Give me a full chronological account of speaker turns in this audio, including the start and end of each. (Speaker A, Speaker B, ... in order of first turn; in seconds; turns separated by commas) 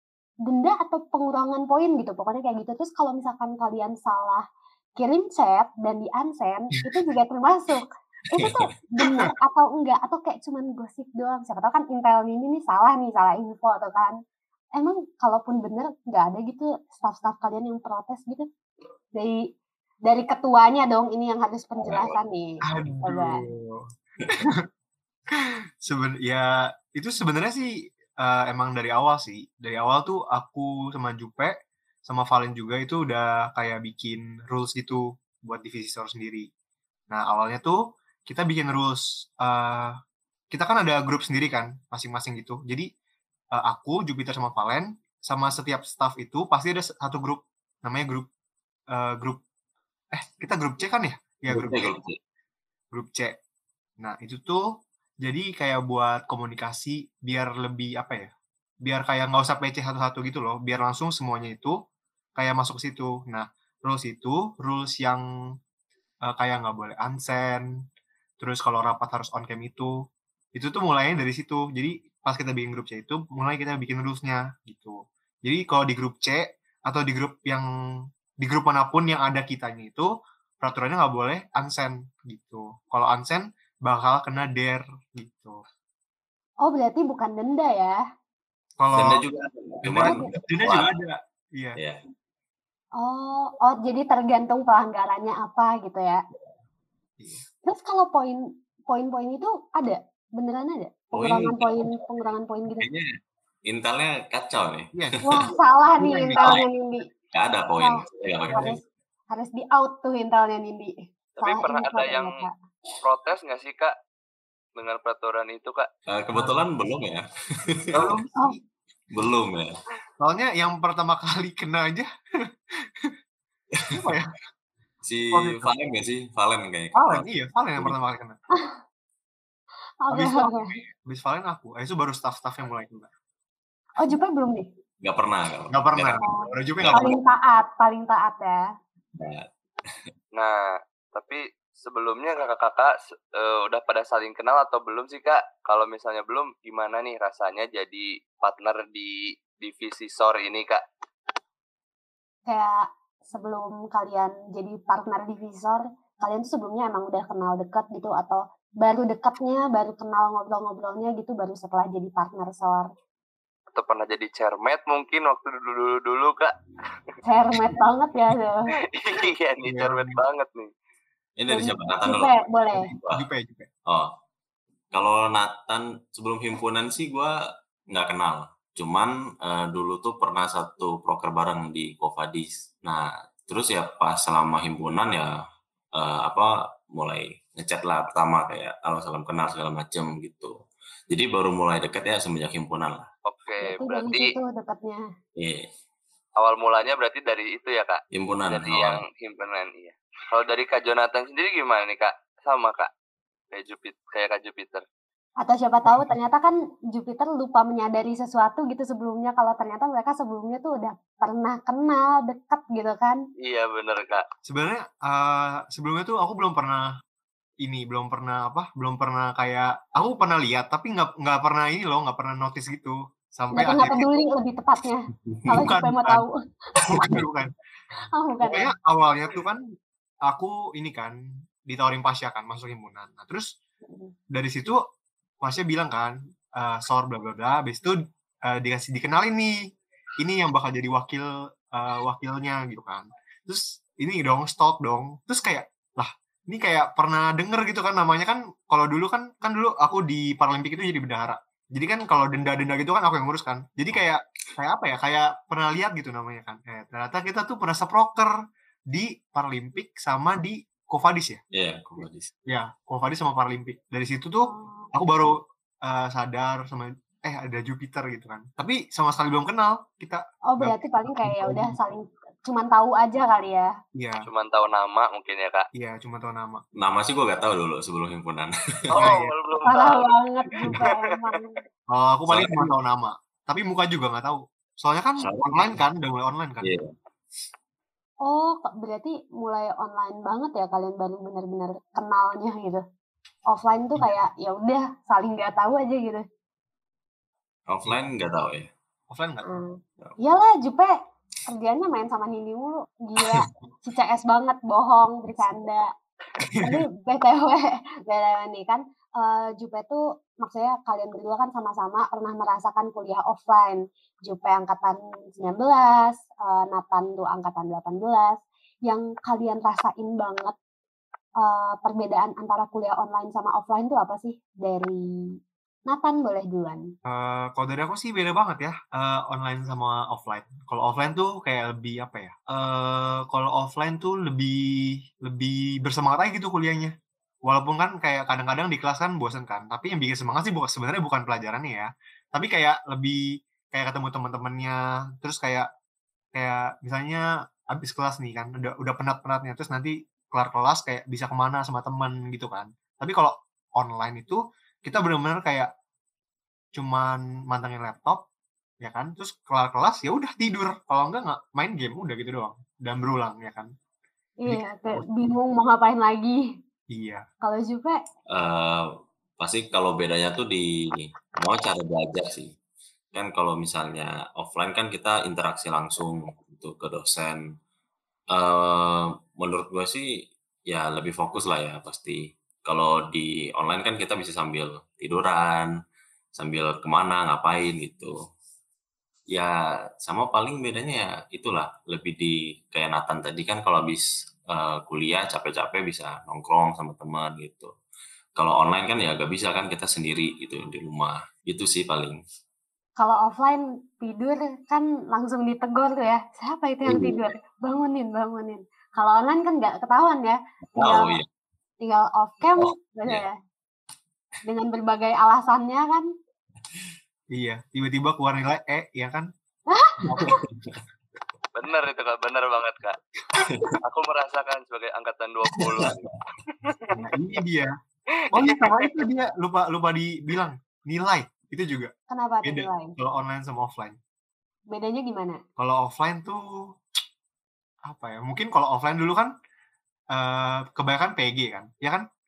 Speaker A: 0.5-4.4, Speaker A: 5.0-14.2, Speaker A: 14.8-18.5, Speaker A: 20.1-23.4, Speaker B: 21.8-22.1, Speaker C: 22.6-24.5, Speaker C: 25.8-31.6, Speaker C: 32.1-36.5, Speaker C: 37.1-40.0, Speaker C: 40.5-42.9, Speaker C: 43.5-48.3, Speaker C: 48.9-49.4, Speaker C: 50.1-51.9, Speaker B: 51.5-52.2, Speaker C: 52.9-53.4, Speaker C: 54.0-54.6, Speaker C: 55.2-58.3, Speaker C: 58.9-61.8, Speaker C: 62.4-65.2, Speaker C: 66.3-67.7, Speaker C: 68.4-69.9, Speaker C: 70.5-77.7, Speaker C: 78.4-80.1, Speaker C: 80.6-85.6, Speaker A: 86.6-88.0, Speaker C: 88.8-89.2, Speaker B: 88.9-90.9, Speaker C: 89.8-91.8, Speaker A: 90.0-90.3, Speaker A: 93.0-96.2, Speaker C: 97.2-97.5, Speaker A: 97.7-102.9, Speaker B: 101.1-102.0, Speaker B: 102.8-103.0, Speaker B: 103.7-105.5, Speaker C: 105.0-105.2, Speaker A: 105.2-107.1, Speaker C: 106.0-106.5, Speaker B: 106.4-106.7, Speaker B: 107.3-108.8, Speaker A: 107.8-112.5, Speaker C: 108.5-108.7, Speaker D: 111.4-112.4, Speaker D: 113.0-113.9, Speaker D: 114.8-115.9, Speaker B: 116.1-118.2, Speaker C: 116.3-116.7, Speaker C: 117.9-118.6, Speaker B: 119.1-119.8, Speaker C: 120.2-122.1, Speaker C: 122.9-123.1, Speaker B: 123.8-124.1, Speaker C: 123.9-124.3, Speaker B: 125.0-127.3, Speaker C: 125.3-125.7, Speaker C: 127.0-128.4, Speaker A: 130.0-130.7, Speaker C: 130.1-133.1, Speaker A: 134.0-134.7, Speaker B: 135.0-136.2, Speaker C: 135.7-137.2, Speaker A: 136.2-138.6, Speaker B: 136.8-137.2, Speaker B: 139.2-140.0, Speaker D: 140.3-150.8, Speaker A: 152.5-162.9, Speaker D: 163.7-166.6, Speaker A: 167.2-168.7, Speaker D: 168.9-170.7, Speaker C: 169.6-170.2, Speaker B: 171.4-173.2, Speaker A: 171.5-172.9, Speaker C: 173.1-173.7, Speaker B: 173.9-174.1, Speaker B: 174.9-177.3, Speaker B: 177.9-185.4, Speaker B: 185.9-190.6, Speaker B: 191.1-193.1, Speaker D: 193.3-194.3, Speaker A: 193.6-195.0, Speaker B: 195.4-195.7, Speaker D: 196.4-202.9, Speaker B: 198.1-199.0, Speaker D: 203.5-204.8, Speaker A: 205.4-213.2, Speaker C: 205.9-206.1, Speaker D: 213.4-214.2, Speaker C: 214.4-216.9, Speaker C: 217.6-224.1, Speaker A: 223.5-226.3, Speaker C: 225.5-226.3, Speaker C: 226.9-227.5, Speaker B: 226.9-227.2, Speaker A: 228.2-228.7, Speaker C: 228.4-229.6, Speaker C: 230.3-233.5, Speaker A: 233.9-234.1, Speaker C: 234.3-234.8, Speaker C: 235.4-239.7, Speaker C: 240.2-258.3, Speaker C: 258.9-261.4, Speaker B: 261.5-262.3, Speaker C: 262.5-271.8, Speaker A: 264.5-264.9, Speaker A: 270.5-273.7, Speaker C: 273.9-274.3, Speaker D: 274.3-275.7, Speaker C: 275.8-276.6, Speaker B: 276.8-279.1, Speaker D: 278.9-280.1, Speaker C: 279.0-279.4, Speaker A: 279.7-281.6, Speaker D: 280.7-281.3, Speaker C: 281.9-286.7, Speaker B: 282.3-282.7, Speaker B: 285.2-285.8, Speaker B: 286.6-286.9, Speaker A: 288.2-292.8, Speaker A: 293.5-296.2, Speaker B: 297.7-298.7, Speaker C: 299.1-299.5, Speaker A: 299.4-300.9, Speaker A: 301.5-305.9, Speaker A: 306.6-320.6, Speaker A: 321.4-325.0, Speaker A: 325.9-326.8, Speaker C: 327.1-336.9, Speaker C: 337.4-345.7, Speaker C: 346.4-355.7, Speaker C: 356.8-358.2, Speaker C: 358.8-363.7, Speaker A: 364.4-366.4, Speaker C: 364.5-365.1, Speaker C: 366.9-367.2, Speaker A: 367.4-368.0, Speaker B: 368.3-372.6, Speaker B: 373.1-377.6, Speaker B: 378.3-385.7, Speaker B: 386.4-388.2, Speaker B: 389.3-397.7, Speaker B: 398.4-402.2, Speaker A: 403.0-411.2, Speaker B: 406.9-407.2, Speaker B: 410.7-411.3, Speaker A: 411.8-413.3, Speaker B: 412.6-413.2, Speaker A: 414.4-416.1, Speaker C: 417.3-419.3, Speaker A: 419.7-420.4, Speaker C: 420.1-420.4, Speaker B: 420.1-420.8, Speaker D: 421.6-423.0, Speaker B: 423.4-423.8, Speaker D: 423.8-427.0, Speaker B: 425.5-426.1, Speaker C: 426.9-427.7, Speaker D: 428.3-429.0, Speaker C: 428.3-431.9, Speaker A: 432.1-433.0, Speaker C: 432.4-434.0, Speaker A: 434.7-435.4, Speaker C: 435.6-436.4, Speaker C: 437.9-439.3, Speaker C: 440.1-442.0